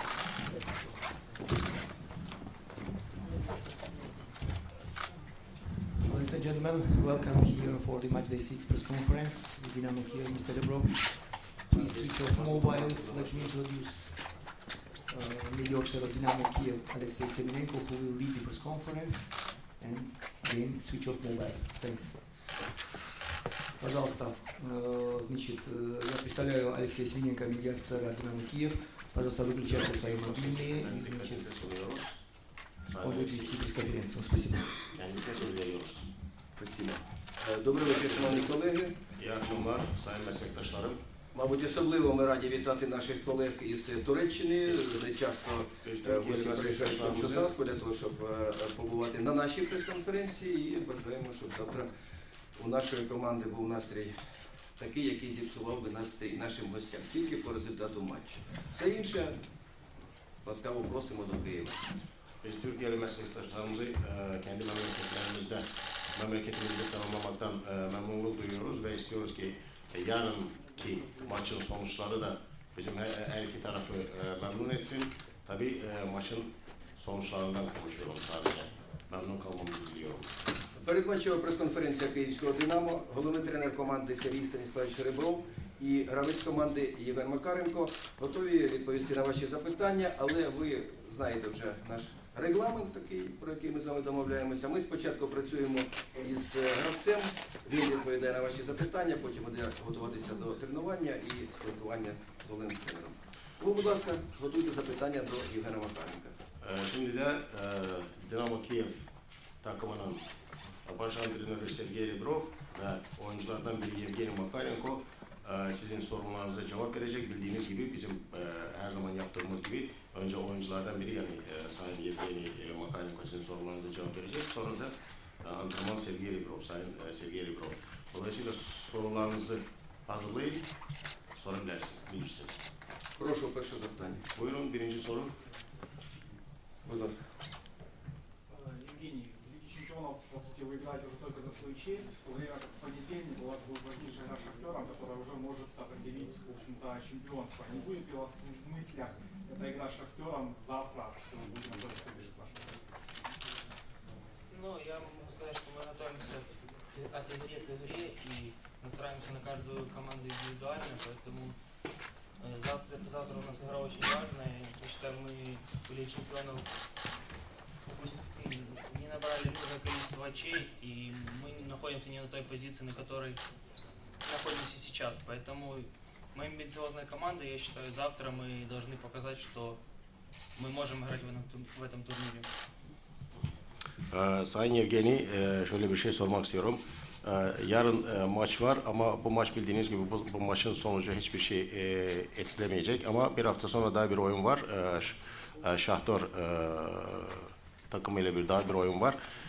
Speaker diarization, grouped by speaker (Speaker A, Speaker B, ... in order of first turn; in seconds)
Speaker A: 6.0-22.6, 23.8-31.6, 33.0-34.9
Speaker B: 11.7-13.5, 36.5-39.0, 41.3-51.9, 52.5-54.1, 54.7-59.4, 60.4-61.8, 80.8-106.3, 133.2-134.2, 136.8-137.3
Speaker C: 29.6-32.2, 32.8-33.6, 34.9-36.1, 38.0-38.5, 39.1-41.0, 45.8-47.5, 62.4-80.3, 106.6-109.0, 109.6-110.2, 110.8-130.7, 131.3-132.6, 134.3-135.3, 184.1-199.2
Speaker D: 138.5-152.9
Speaker E: 154.5-161.6, 162.4-166.7, 167.9-173.4, 174.2-179.8, 180.6-182.5